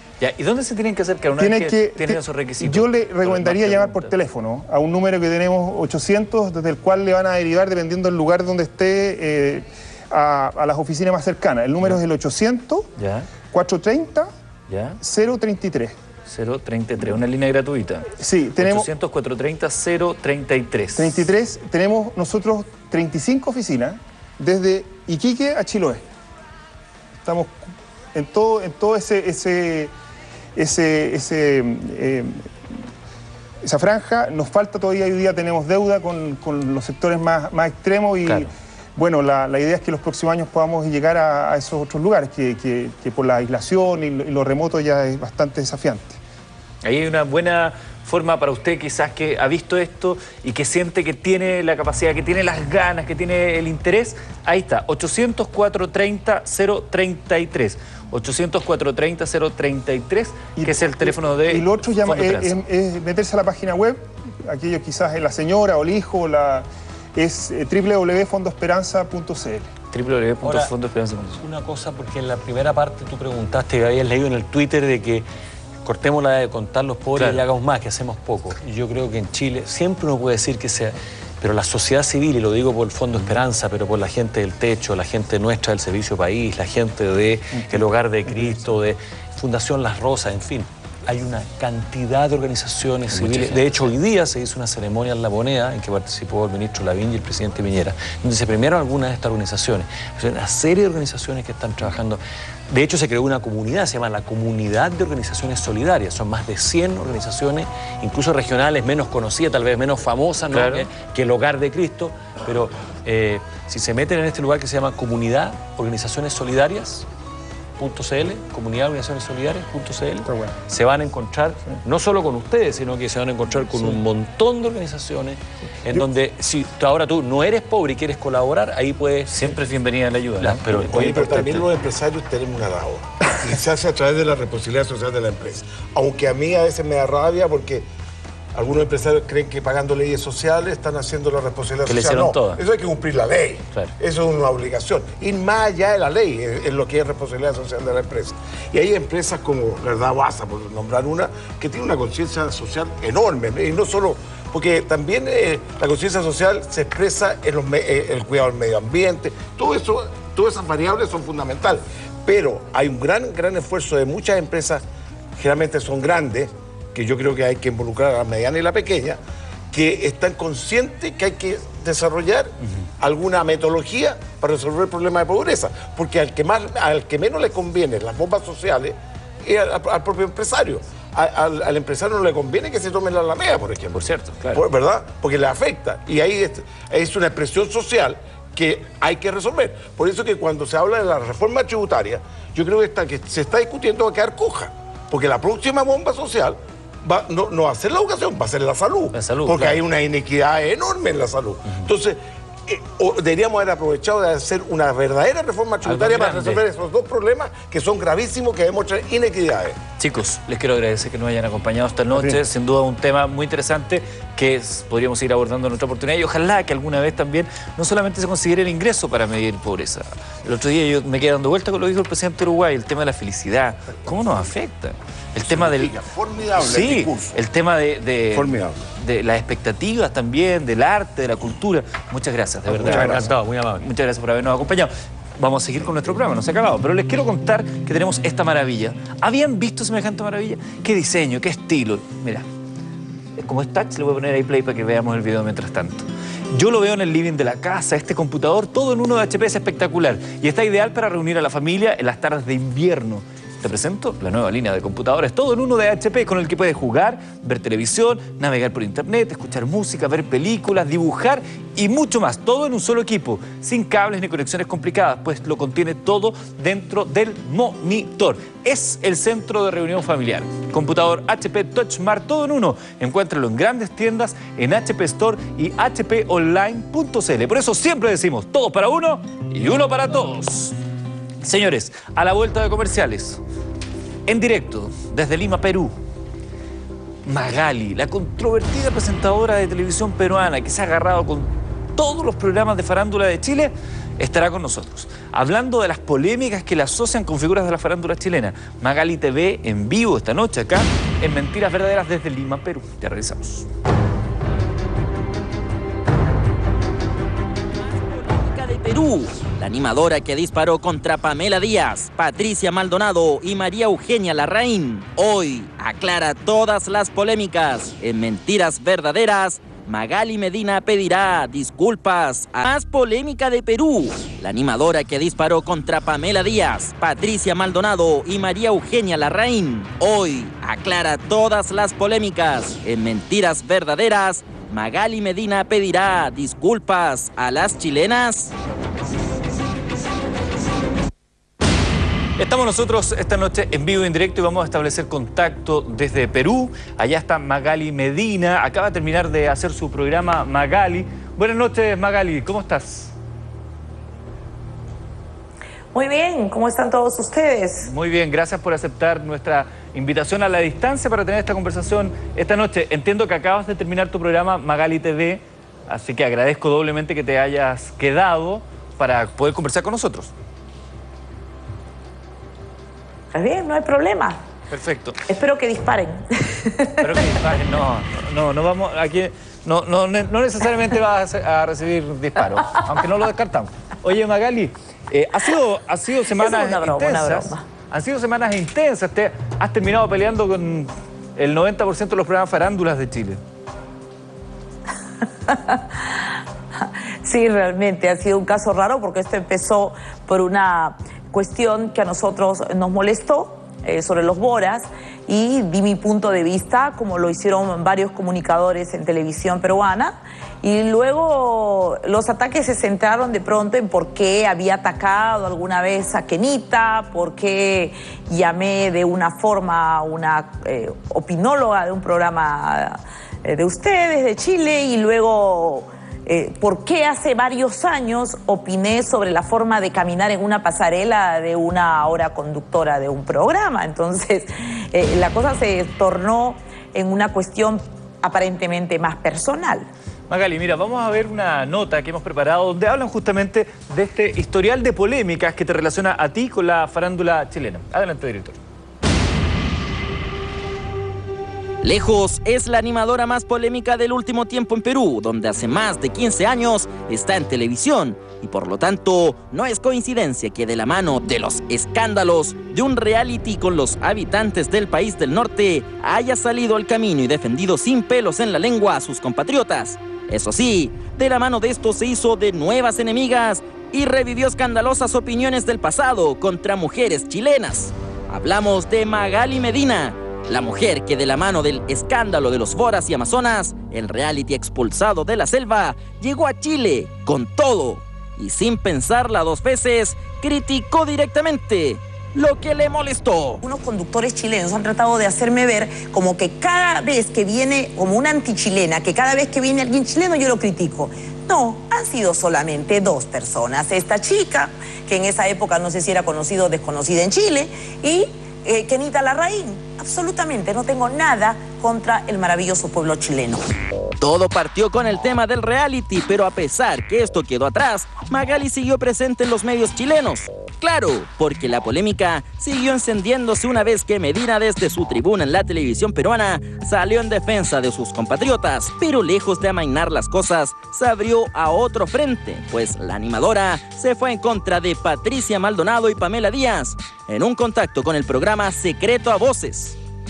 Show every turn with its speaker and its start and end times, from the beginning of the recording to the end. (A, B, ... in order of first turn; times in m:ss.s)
0:00.2-0:04.1 A
0:01.4-0:12.9 B
0:13.0-0:13.3 A
0:13.5-0:14.3 B
0:14.7-0:15.0 A
0:15.0-0:16.0 B
0:16.3-0:21.2 A
0:18.2-0:18.9 B
0:21.0-0:26.0 B
0:27.2-0:27.6 B
0:28.1-0:29.9 B
0:30.6-0:32.5 B
0:33.6-0:46.2 B
0:46.8-1:02.6 A
1:00.6-1:09.7 B
1:09.9-1:11.4 A
1:10.4-1:10.7 C
1:11.4-1:15.2 C
1:15.8-1:57.0 C
1:17.2-1:17.4 A
1:33.1-1:33.7 A
1:50.5-1:50.9 A
1:57.8-2:09.4 C
2:00.2-2:00.5 B
2:09.3-2:11.6 A
2:10.4-2:11.6 C
2:10.8-2:17.8 D
2:18.5-2:44.8 D
2:21.8-2:22.6 A
2:45.4-2:49.2 D
2:49.7-3:29.8 D
3:03.9-3:04.6 A
3:19.1-3:19.8 A
3:25.8-3:26.6 A
3:30.0-3:45.9 A
3:32.1-3:32.4 B
3:45.4-3:47.4 D
3:46.6-4:02.4 A
3:48.3-3:48.8 D
3:52.6-3:53.9 C
4:03.4-4:40.7 A
4:41.4-4:43.4 A
4:44.3-4:45.9 A
4:47.2-5:03.6 A
5:08.3-5:38.5 E
5:42.4-5:53.1 A
5:55.9-5:57.9 F
5:57.8-6:10.3 A
6:13.3-6:14.4 F
6:14.7-6:15.2 A
6:15.2-6:17.2 F
6:17.0-6:33.4 A
6:26.4-6:27.6 F
6:35.5-6:36.2 F
6:36.8-7:19.9 F
7:20.3-7:28.6 A
7:31.8-8:13.6 E
8:13.6-8:33.6 F
8:34.2-9:00.0 E